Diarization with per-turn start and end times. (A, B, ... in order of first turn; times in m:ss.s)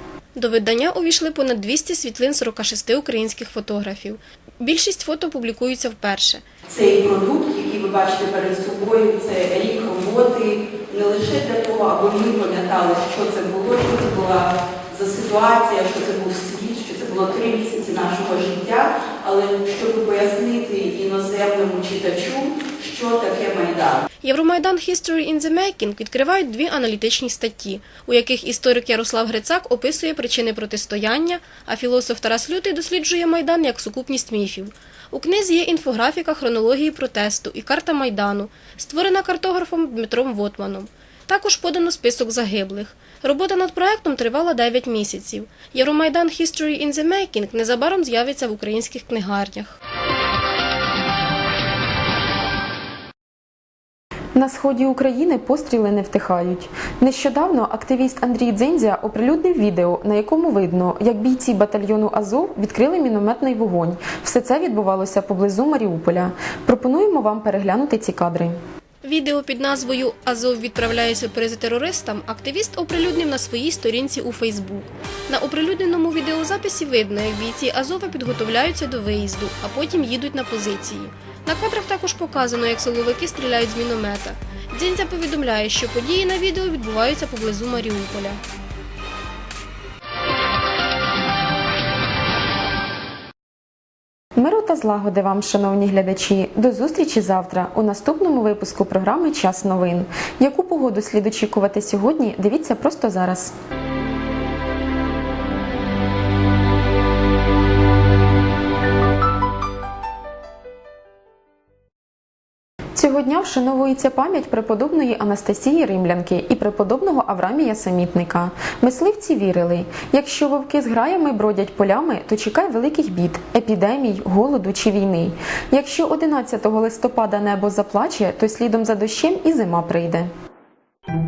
0:00.3-0:06.4 A
0:06.7-0:24.0 B
0:24.2-0:49.8 A
0:54.3-1:08.6 C
1:09.0-1:28.4 A
1:34.4-1:43.5 C
1:52.9-2:10.3 C